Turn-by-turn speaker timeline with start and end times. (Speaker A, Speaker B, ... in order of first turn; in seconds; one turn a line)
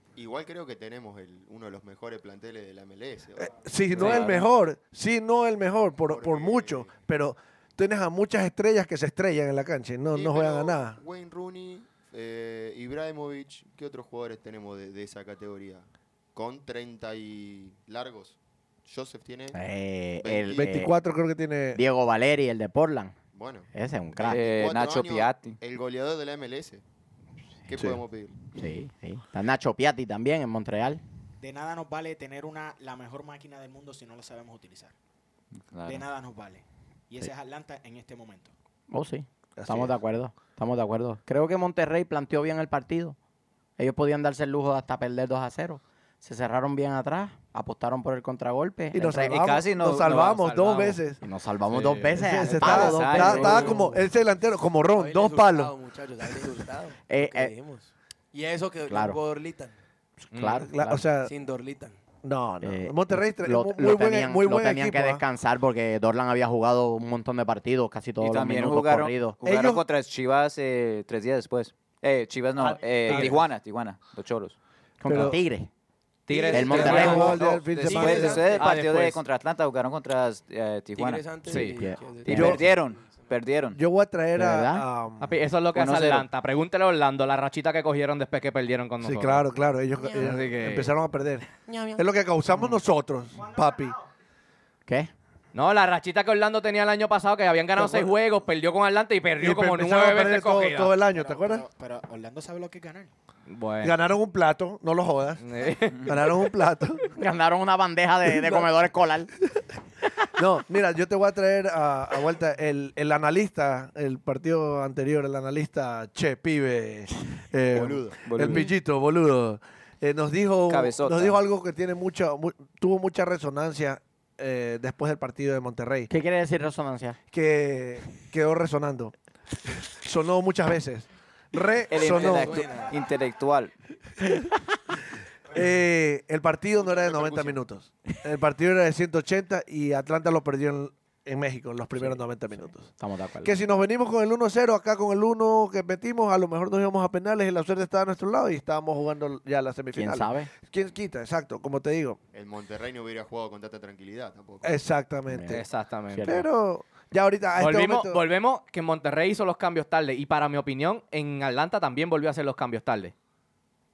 Speaker A: 0.2-4.2
Speaker B: 3.4-11.0
Speaker C: 4.0-4.4
Speaker A: 6.1-6.9
Speaker A: 10.1-19.6
Speaker D: 19.5-20.9
Speaker A: 20.2-20.7
Speaker B: 20.5-21.8
Speaker D: 21.8-23.1
Speaker A: 23.4-23.7
Speaker D: 23.7-24.4
Speaker A: 24.2-26.8
Speaker E: 24.3-25.6
Speaker A: 27.7-28.4
Speaker D: 28.6-31.0
Speaker F: 31.4-34.9
Speaker E: 35.7-36.0
Speaker F: 35.9-38.5
Speaker D: 38.9-43.2
Speaker B: 39.6-40.0
Speaker D: 43.8-49.4
Speaker B: 48.9-51.2
Speaker E: 49.3-51.0
Speaker D: 51.2-53.7
Speaker C: 51.7-52.2
Speaker B: 52.2-55.7
Speaker E: 52.5-53.9
Speaker G: 53.2-53.9
Speaker G: 55.0-59.8
Speaker D: 57.1-57.5
Speaker D: 58.9-59.2
Speaker D: 60.2-61.0
Speaker C: 60.3-60.7
Speaker B: 60.7-61.3
Speaker G: 61.2-62.0
Speaker B: 62.2-65.2
Speaker D: 62.6-69.4
Speaker E: 68.2-74.6
Speaker B: 69.4-69.8
Speaker B: 72.6-73.5
Speaker D: 75.0-75.7
Speaker B: 75.1-75.4
Speaker C: 76.3-77.4
Speaker G: 76.3-78.8
Speaker E: 76.4-83.8
Speaker D: 76.5-77.2
Speaker B: 76.6-78.6
Speaker C: 78.5-79.2
Speaker G: 81.0-83.3
Speaker D: 81.5-82.0
Speaker B: 82.3-82.8
Speaker B: 83.8-85.3
Speaker D: 84.4-84.8
Speaker C: 85.2-89.5
Speaker E: 85.7-86.3
Speaker B: 89.0-94.0
Speaker C: 90.1-90.9
Speaker G: 91.7-92.0
Speaker F: 93.3-94.1
Speaker C: 95.5-101.0
Speaker B: 97.8-98.1
Speaker B: 99.4-101.7
Speaker F: 101.1-103.1
Speaker C: 103.5-104.0
Speaker B: 103.8-105.4
Speaker C: 105.4-106.1
Speaker B: 106.0-107.0
Speaker D: 107.2-109.3
Speaker B: 108.3-108.7
Speaker B: 110.4-126.1
Speaker A: 117.7-118.2
Speaker E: 118.2-118.7
Speaker E: 120.7-121.4
Speaker D: 126.1-127.2
Speaker B: 127.3-129.1
Speaker B: 129.9-132.7
Speaker E: 131.9-133.7
Speaker G: 132.0-133.0
Speaker B: 135.5-142.9
Speaker G: 136.8-137.6
Speaker D: 143.0-143.6
Speaker B: 143.4-152.2
Speaker D: 149.9-150.5
Speaker A: 152.3-154.8
Speaker B: 154.6-155.6
Speaker D: 155.3-156.5
Speaker C: 155.5-156.3
Speaker B: 156.2-158.2
Speaker C: 157.6-163.1